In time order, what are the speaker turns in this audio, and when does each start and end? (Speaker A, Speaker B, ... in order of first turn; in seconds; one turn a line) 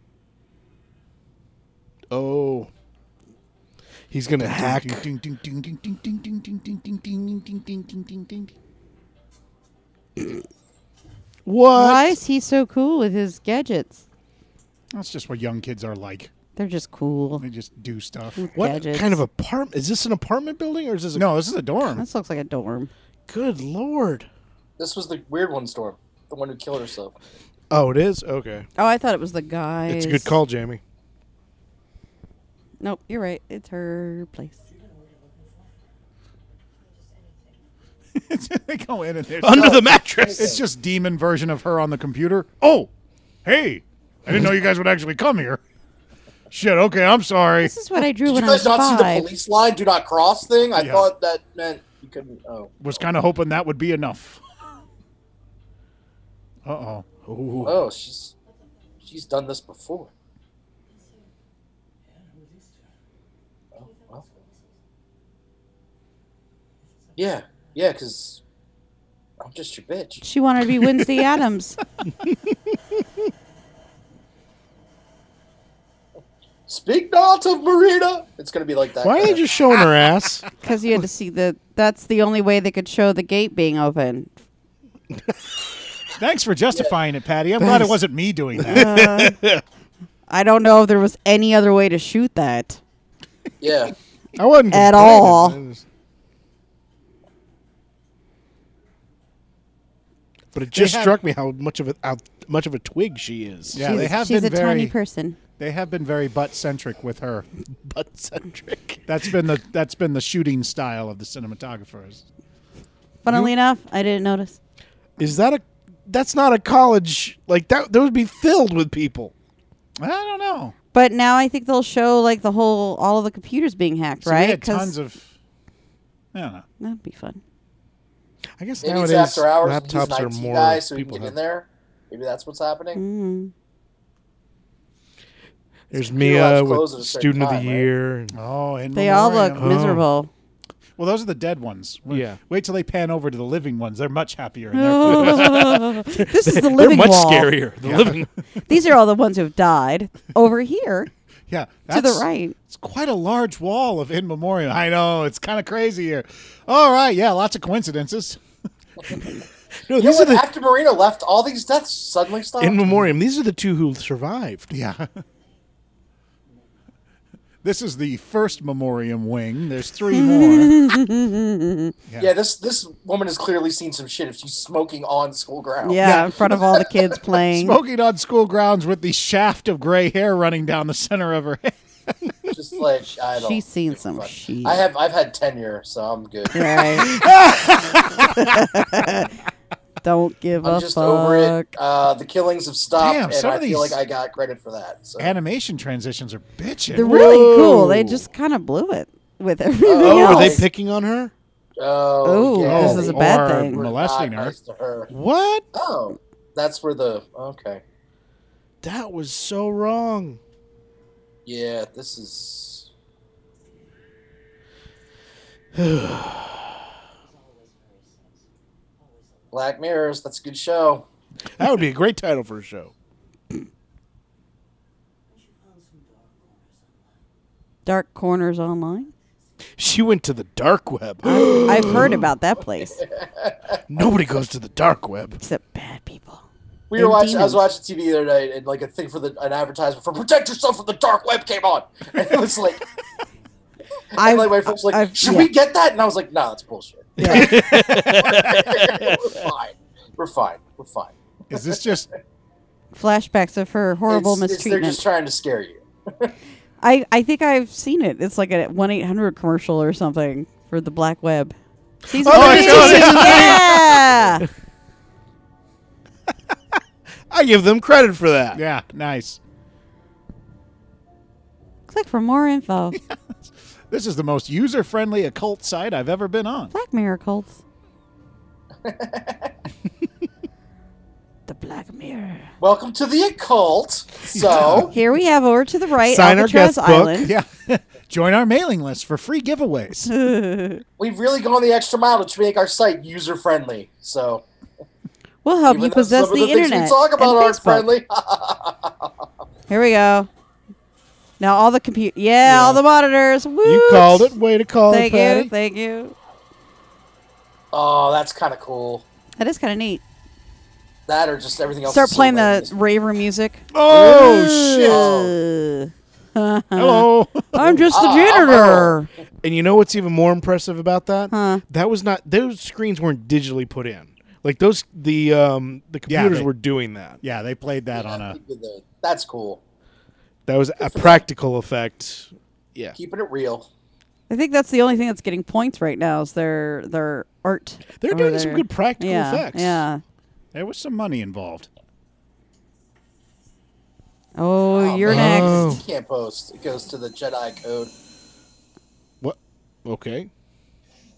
Speaker A: 2.1-2.7
Speaker A: 4.1-5.0
Speaker B: 4.4-8.5
Speaker A: 11.4-12.1
Speaker C: 11.7-14.0
Speaker B: 14.9-16.3
Speaker C: 16.6-17.4
Speaker B: 17.4-18.4
Speaker C: 18.4-19.2
Speaker A: 18.5-21.3
Speaker B: 21.1-22.0
Speaker C: 22.0-22.9
Speaker A: 23.3-24.3
Speaker D: 24.8-27.1
Speaker A: 27.7-28.6
Speaker C: 28.8-30.3
Speaker A: 29.9-30.8
Speaker C: 32.8-34.6
Speaker B: 38.1-42.9
Speaker A: 39.4-40.5
Speaker D: 39.6-40.6
Speaker B: 43.4-45.6
Speaker B: 46.5-47.7
Speaker C: 47.6-49.3
Speaker D: 48.2-52.7
Speaker B: 50.8-51.1
Speaker B: 52.8-54.4
Speaker B: 56.6-57.0
Speaker A: 57.2-57.8
Speaker D: 57.6-58.3
Speaker D: 59.0-60.1
Speaker D: 63.8-64.2
Speaker D: 67.2-68.4
Speaker D: 69.4-70.2
Speaker C: 70.2-71.8
Speaker A: 72.2-72.7
Speaker D: 76.7-79.4
Speaker A: 79.0-80.4
Speaker C: 80.6-84.3
Speaker B: 86.2-88.9
Speaker A: 87.6-87.9
Speaker A: 88.6-89.6
Speaker C: 88.6-89.4
Speaker C: 90.3-92.8
Speaker D: 93.6-93.9
Speaker A: 94.3-95.8
Speaker C: 94.7-95.6
Speaker A: 100.5-104.1
Speaker B: 100.7-101.2
Speaker B: 103.7-104.9
Speaker C: 103.8-105.4
Speaker B: 105.6-107.5
Speaker A: 107.8-109.0
Speaker B: 109.1-112.2
Speaker C: 113.2-114.6
Speaker A: 115.2-119.3
Speaker B: 120.0-120.7
Speaker C: 120.9-124.9
Speaker B: 124.2-125.3
Speaker B: 126.3-126.6
Speaker C: 126.8-127.4
Speaker A: 128.6-131.3
Speaker D: 128.8-133.0
Speaker C: 132.9-133.5
Speaker A: 135.9-138.3
Speaker D: 135.9-137.9
Speaker B: 138.3-139.7
Speaker C: 138.9-140.3
Speaker A: 139.6-140.0
Speaker B: 141.0-145.6
Speaker A: 142.1-142.4
Speaker C: 144.7-147.5
Speaker A: 145.1-148.3
Speaker B: 147.8-148.2
Speaker C: 148.7-151.1
Speaker B: 151.5-158.4
Speaker C: 151.9-152.5
Speaker A: 159.9-160.4
Speaker D: 159.9-162.8
Speaker A: 162.6-164.7
Speaker B: 164.7-165.1
Speaker B: 167.6-170.8
Speaker C: 170.1-171.9
Speaker D: 172.2-176.0
Speaker C: 175.8-177.8
Speaker B: 176.0-176.3
Speaker B: 177.5-181.8
Speaker D: 182.5-183.6
Speaker C: 183.3-184.8
Speaker D: 184.1-186.8
Speaker C: 186.5-187.2
Speaker A: 186.8-188.6
Speaker C: 188.2-189.3
Speaker C: 190.0-191.7
Speaker D: 190.6-195.3
Speaker B: 192.9-194.0
Speaker B: 195.2-197.1
Speaker C: 196.9-200.6
Speaker A: 196.9-198.3
Speaker D: 199.8-200.6
Speaker A: 200.0-201.3
Speaker D: 201.8-205.1
Speaker C: 202.2-203.8
Speaker B: 202.6-204.5
Speaker A: 205.1-205.7
Speaker D: 205.7-207.8
Speaker A: 208.8-210.4
Speaker D: 211.4-212.9
Speaker A: 215.7-216.8
Speaker D: 219.5-221.1
Speaker A: 221.6-222.9
Speaker C: 227.8-229.1
Speaker A: 229.8-232.3
Speaker C: 231.2-233.0
Speaker D: 232.9-233.8
Speaker A: 233.9-235.4
Speaker C: 235.4-236.4
Speaker D: 236.9-242.8
Speaker C: 236.9-237.6
Speaker D: 244.1-251.1
Speaker C: 244.2-245.5
Speaker C: 247.2-247.6
Speaker A: 247.2-249.5
Speaker B: 251.5-252.1
Speaker C: 252.9-255.0
Speaker D: 254.1-256.3
Speaker C: 256.8-261.5
Speaker C: 262.1-264.4
Speaker A: 262.1-264.2
Speaker B: 262.3-264.0
Speaker A: 267.3-268.6
Speaker B: 268.5-269.4
Speaker C: 271.9-273.0
Speaker B: 273.9-276.7
Speaker C: 276.7-277.6
Speaker D: 278.8-279.5
Speaker C: 281.5-282.5
Speaker D: 282.6-284.9
Speaker B: 284.3-284.9
Speaker C: 284.9-287.3
Speaker A: 286.0-287.3
Speaker B: 287.2-290.1
Speaker C: 290.1-290.8
Speaker D: 291.0-294.4
Speaker C: 295.4-297.9
Speaker D: 295.7-299.2
Speaker C: 299.7-300.3
Speaker C: 301.4-304.3
Speaker A: 302.4-302.8
Speaker A: 303.6-305.5
Speaker C: 304.9-306.1
Speaker D: 307.7-309.0
Speaker C: 309.4-310.0
Speaker D: 311.1-312.7
Speaker C: 311.9-319.1
Speaker B: 313.7-315.0
Speaker A: 313.9-315.0
Speaker D: 314.8-315.3
Speaker B: 316.8-317.8
Speaker D: 317.9-319.0
Speaker A: 319.4-327.2
Speaker C: 321.3-321.6
Speaker B: 326.1-326.5
Speaker B: 327.2-328.4
Speaker D: 327.9-329.6
Speaker A: 330.5-332.9
Speaker D: 330.8-331.2
Speaker D: 332.9-333.7
Speaker C: 334.3-340.0
Speaker A: 338.0-339.8
Speaker B: 340.5-341.7
Speaker C: 344.4-345.7
Speaker D: 344.7-347.9
Speaker A: 345.1-345.8
Speaker A: 349.2-350.3